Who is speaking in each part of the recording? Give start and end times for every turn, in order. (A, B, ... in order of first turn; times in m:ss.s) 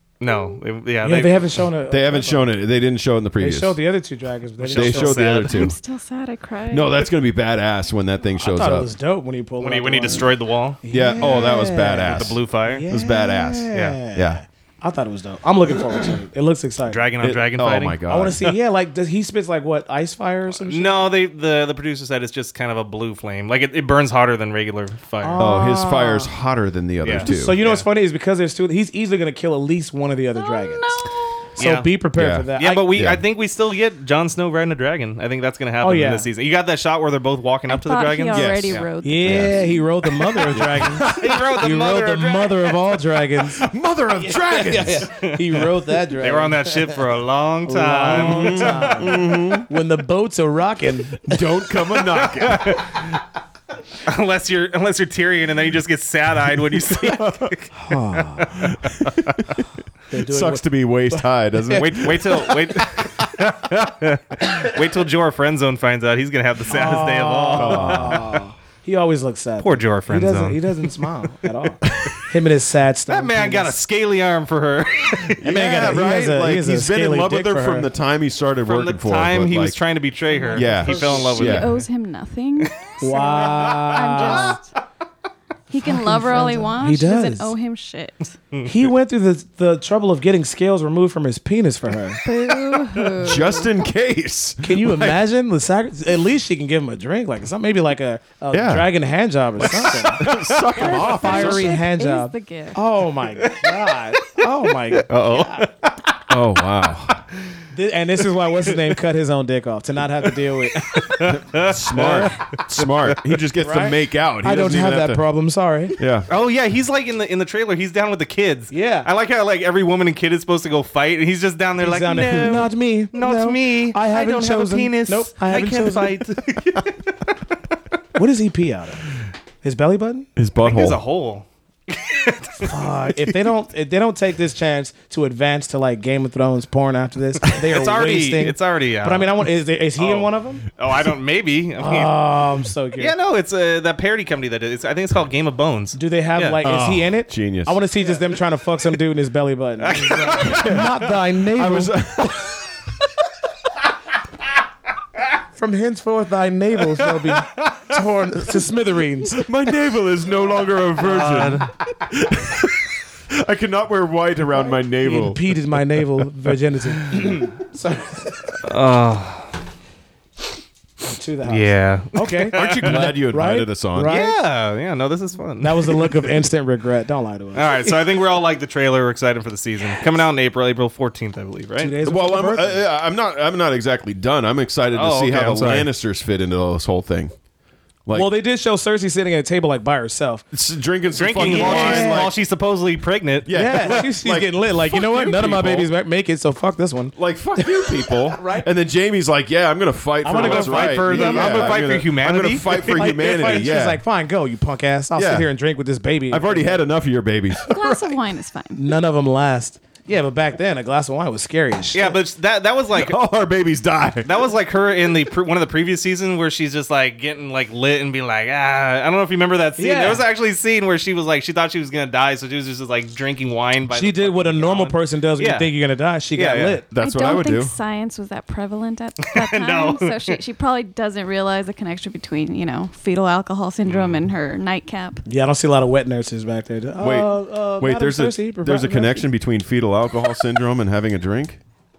0:00.2-0:01.4 A
0:01.0-0:02.5 B
0:01.9-0:03.8 C
0:03.4-0:05.2 B
0:04.6-0:05.7 A
0:04.7-0:05.8 C
0:05.5-0:07.0 D
0:06.7-0:08.9 C
0:08.4-0:17.1 B
0:09.6-0:11.4 A
0:10.9-0:14.4 C
0:12.1-0:12.8 A
0:13.7-0:14.0 A
0:16.9-0:18.0 A
0:17.2-0:18.5 C
0:18.0-0:21.1 B
0:20.5-0:25.4 A
0:25.2-0:26.3 B
0:25.4-0:27.6 C
0:27.0-0:27.8 A
0:27.1-0:30.9 B
0:30.4-0:31.2 D
0:31.6-0:32.9 B
0:31.6-0:31.9 A
0:32.1-0:33.2 C
0:32.6-0:38.9 A
0:35.8-0:36.3 B
0:37.7-0:39.8 D
0:38.3-0:39.6 C
0:39.0-0:43.7 B
0:40.5-0:41.2 C
0:41.0-0:42.8 A
0:43.6-0:45.1 C
0:44.2-0:46.9 B
0:45.2-0:45.6 A
0:46.2-0:49.1 A
0:47.6-0:51.4 B
0:48.1-0:49.7 C
0:51.2-0:52.8 C
0:52.2-0:53.0 A
0:54.0-0:57.7 A
0:57.1-0:57.5 C
0:57.7-0:58.7 B
0:58.6-0:59.2 C
1:00.1-1:03.3 B
1:00.2-1:02.3 C
1:01.7-1:08.2 A
1:06.7-1:13.8 B
1:07.5-1:08.4 C
1:09.6-1:10.6 A
1:13.1-1:15.4 A
1:15.4-1:19.8 C
1:15.4-1:17.9 B
1:18.6-1:21.8 A
1:20.3-1:21.3 B
1:20.5-1:21.8 C
1:21.1-1:24.7 D
1:23.0-1:24.6 B
1:23.6-1:24.6 A
1:25.7-1:28.3 D
1:25.8-1:27.5 B
1:28.5-1:28.8 A
1:28.6-1:32.2 B
1:32.2-1:33.7 D
1:33.2-1:35.2 C
1:34.6-1:40.3 B
1:38.5-1:38.9 C
1:39.6-1:41.8 C
1:40.2-1:40.7 A
1:40.8-1:42.8 D
1:40.8-1:45.7 B
1:43.4-1:43.7 A
1:45.0-1:45.9 A
1:46.3-1:47.2 C
1:47.7-1:51.4 B
1:50.8-1:53.4 A
1:51.2-1:55.2 C
1:53.6-1:56.0 B
1:56.0-1:56.3 C
1:56.3-2:07.2 A
1:58.7-1:59.1 B
2:01.8-2:06.2 B
2:08.1-2:09.0 B
2:09.6-2:10.3 B
2:10.4-2:11.0 C
2:10.6-2:12.7 A
2:12.6-2:20.6 B
2:17.6-2:19.4 A
2:20.0-2:22.1 A
2:21.8-2:23.1 B
2:23.0-2:27.1 A
2:25.9-2:31.9 B
2:27.3-2:27.8 C
2:29.8-2:30.8 A
2:30.4-2:30.9 C
2:31.5-2:32.6 C
2:35.6-2:39.4 B
2:37.2-2:37.9 A
2:39.3-2:45.6 C
2:41.0-2:41.7 A
2:45.0-2:48.6 B
2:48.6-2:49.5 A
2:51.0-2:54.4 B
2:51.4-2:53.0 A
2:52.5-2:54.2 C
2:54.0-2:56.4 A
2:55.6-2:58.0 B
2:57.5-3:01.9 A
3:01.8-3:02.8 B
3:02.0-3:07.3 C
3:04.9-3:05.9 A
3:08.1-3:10.4 B
3:10.5-3:12.3 C
3:11.2-3:14.0 A
3:11.4-3:12.3 B
3:13.4-3:15.9 C
3:13.5-3:18.6 B
3:17.2-3:24.0 C
3:20.2-3:21.9 B
3:20.3-3:23.4 A
3:22.7-3:26.8 B
3:25.1-3:25.5 C
3:26.3-3:28.0 C
3:27.6-3:28.8 D
3:28.7-3:32.2 B
3:31.9-3:33.2 A
3:32.9-3:34.4 C
3:34.2-3:45.7 A
3:39.8-3:40.2 B
3:43.9-3:46.8 B
3:46.3-3:46.8 A
3:46.9-3:47.7 C
3:47.0-3:55.2 D
3:49.3-3:50.4 A
3:53.8-3:54.2 A
3:55.3-3:59.2 B
3:57.0-4:01.6 C